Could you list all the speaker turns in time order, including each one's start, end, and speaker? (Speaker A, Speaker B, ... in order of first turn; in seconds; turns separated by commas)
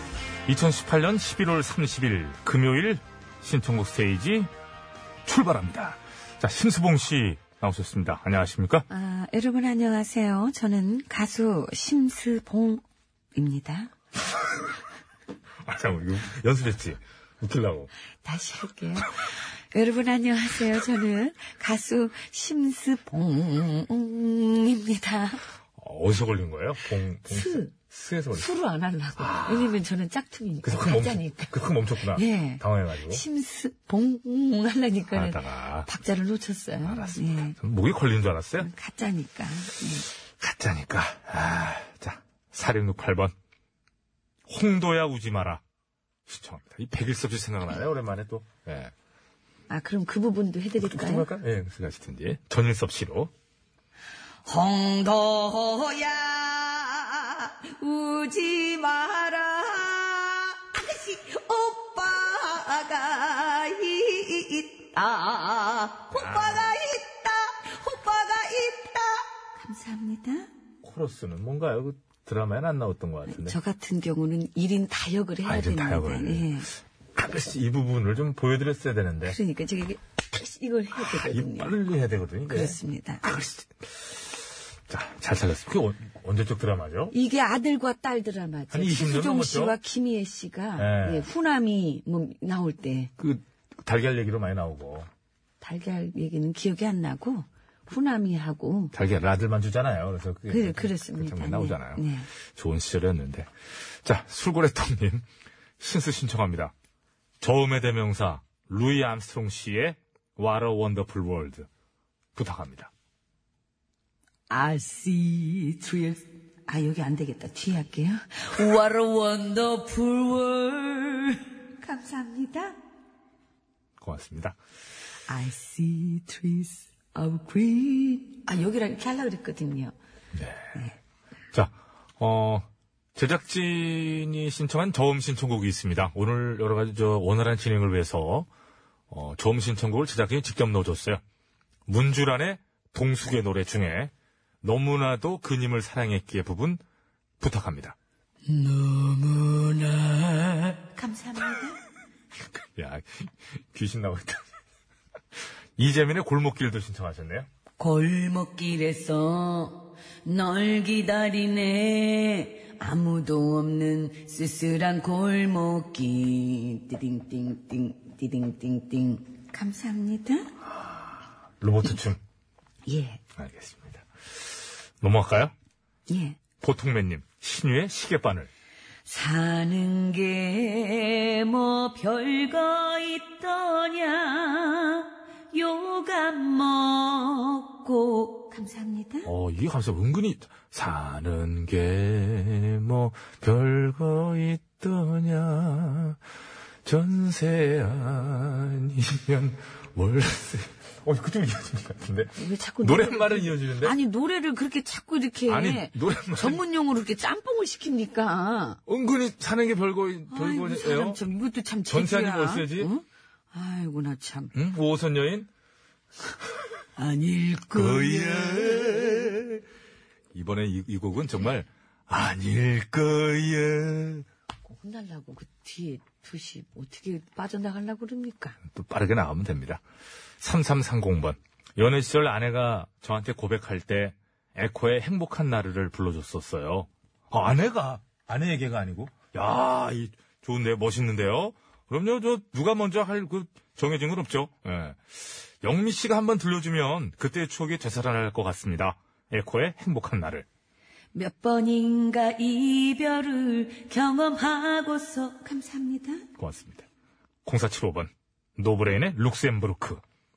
Speaker A: 0.5-4.5, Speaker A: 5.2-8.8, Speaker B: 8.9-12.8, Speaker B: 13.3-13.9, Speaker A: 15.7-17.9, Speaker B: 18.2-25.4, Speaker A: 25.8-28.5, Speaker B: 27.3-27.7, Speaker B: 28.3-31.5, Speaker A: 29.2-29.7, Speaker A: 30.6-33.2, Speaker B: 32.1-37.5, Speaker A: 35.1-35.9, Speaker A: 36.8-38.7, Speaker B: 38.6-40.1, Speaker A: 40.4-43.3, Speaker A: 44.5-45.6, Speaker A: 46.3-48.9, Speaker B: 49.7-51.3, Speaker A: 50.8-53.3, Speaker B: 54.5-70.5, Speaker A: 66.1-66.6, Speaker A: 70.8-73.6, Speaker B: 73.3-76.7, Speaker A: 75.5-76.5, Speaker A: 77.2-79.4, Speaker B: 79.2-81.7, Speaker A: 81.0-84.3, Speaker B: 82.5-83.2, Speaker A: 84.9-87.1, Speaker B: 87.1-93.1, Speaker A: 88.7-89.8, Speaker A: 90.8-91.3, Speaker A: 93.2-95.1, Speaker B: 95.6-98.9, Speaker A: 98.9-103.5, Speaker B: 100.5-102.3, Speaker A: 104.0-105.2, Speaker A: 105.8-106.7, Speaker A: 107.4-111.7, Speaker A: 112.3-112.9, Speaker B: 114.5-122.8, Speaker A: 124.0-124.5, Speaker B: 125.3-129.9, Speaker A: 130.3-130.7, Speaker A: 131.5-138.5, Speaker A: 139.1-141.2, Speaker A: 141.9-146.8, Speaker A: 147.4-147.9, Speaker B: 148.4-151.8, Speaker A: 152.8-154.5, Speaker A: 155.8-157.5, Speaker B: 157.8-170.5, Speaker A: 171.6-172.2, Speaker B: 172.9-173.2, Speaker A: 173.4-174.0, Speaker A: 175.0-175.5, Speaker B: 176.1-176.4, Speaker A: 176.6-178.5, Speaker B: 179.1-189.3, Speaker A: 189.2-196.2, Speaker A: 196.8-203.9, Speaker B: 202.3-208.8, Speaker A: 205.5-206.6, Speaker A: 208.9-211.2, Speaker B: 210.3-214.5, Speaker A: 211.9-212.9, Speaker A: 214.5-215.5, Speaker B: 217.0-219.4, Speaker A: 217.7-219.6, Speaker A: 220.3-224.2, Speaker B: 224.7-228.6, Speaker A: 228.7-229.8, Speaker A: 230.4-250.4, Speaker B: 251.1-256.2, Speaker A: 256.4-256.9, Speaker A: 257.4-260.0